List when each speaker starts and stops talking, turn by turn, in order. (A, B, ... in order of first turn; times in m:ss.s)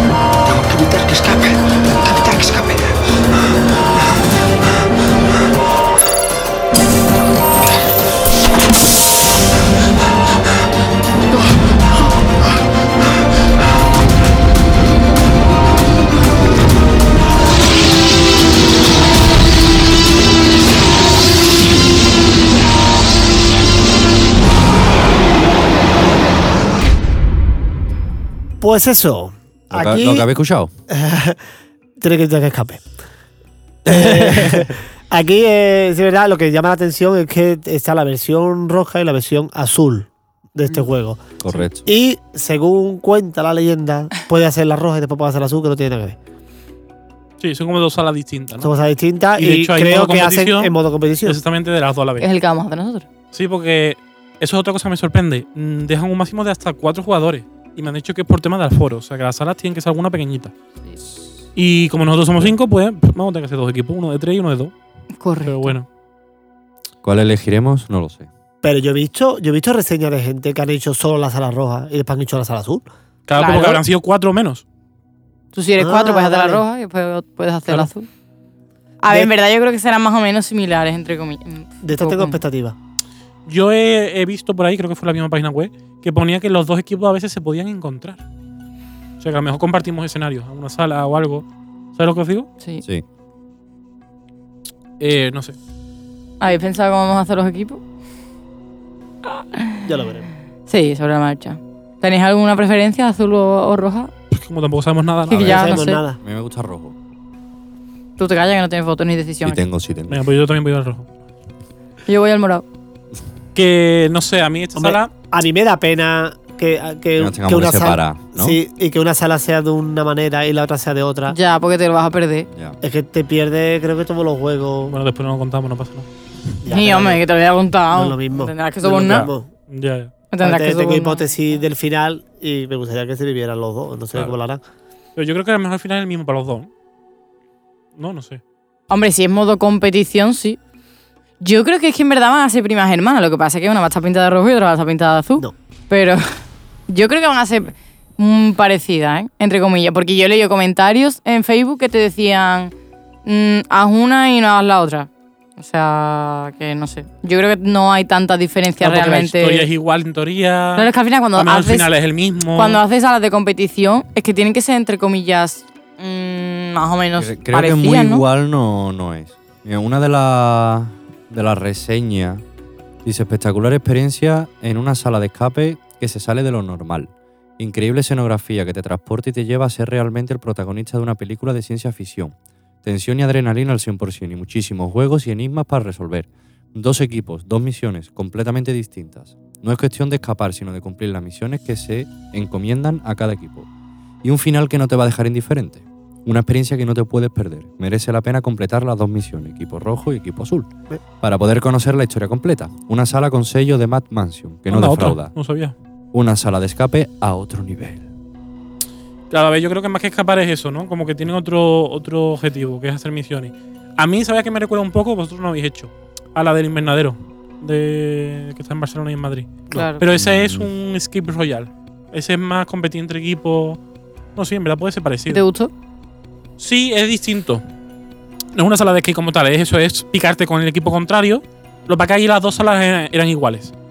0:00.4-0:02.9 A
0:28.6-0:30.3 B
0:29.7-0:30.7 C
0:30.9-0:31.4 B
0:32.0-0:32.8 B
0:33.8-0:34.7 C
0:33.8-0:46.2 B
0:41.4-0:41.8 C
0:47.4-0:48.7 D
0:48.6-0:51.4 B
0:49.4-0:52.3 D
0:52.2-0:53.0 E
0:53.3-1:00.5 D
1:01.5-1:04.7 D
1:05.2-1:05.8 E
1:05.4-1:05.8 D
1:07.0-1:08.3 C
1:08.6-1:12.9 B
1:13.3-1:14.6 D
1:13.4-1:13.8 E
1:15.5-1:18.1 E
1:15.8-1:16.6 B
1:19.0-1:22.4 E
1:21.8-1:22.8 B
1:23.4-1:28.2 D
1:29.2-1:32.5 D
1:35.0-1:35.6 D
1:36.4-1:37.8 E
1:39.3-1:39.8 E
1:39.8-1:40.3 B
1:40.7-1:44.1 E
1:44.3-1:45.6 D
1:45.3-1:46.9 C
1:45.3-1:46.2 B
1:45.3-1:46.0 E
1:48.2-1:49.6 E
1:49.4-1:50.3 C
1:50.1-1:51.1 D
1:52.1-1:52.6 E
1:53.5-1:55.1 D
1:54.8-2:01.4 B
1:57.2-1:58.6 C
2:01.3-2:02.5 E
2:02.5-2:02.8 C
2:02.8-2:05.0 B
2:04.9-2:06.1 D
2:06.6-2:07.2 B
2:06.7-2:09.3 E
2:07.9-2:09.5 B
2:08.9-2:10.1 D
2:10.3-2:11.2 E
2:10.4-2:14.6 B
2:15.2-2:16.7 D
2:18.0-2:18.4 D
2:18.9-2:20.6 E
2:21.4-2:26.2 E
2:26.9-2:32.7 E
2:33.2-2:39.7 E
2:38.8-2:42.8 D
2:40.8-2:41.9 E
2:42.5-2:48.2 E
2:47.2-2:52.4 C
2:53.0-3:13.7 C
3:14.2-3:25.3 C
3:24.7-3:25.7 D
3:26.1-3:28.0 C
3:29.3-3:43.8 D
3:39.7-3:40.0 E
3:40.1-3:40.7 C
3:44.4-3:45.4 D
3:45.3-3:45.7 E
3:46.6-3:47.6 D
3:48.5-3:53.7 D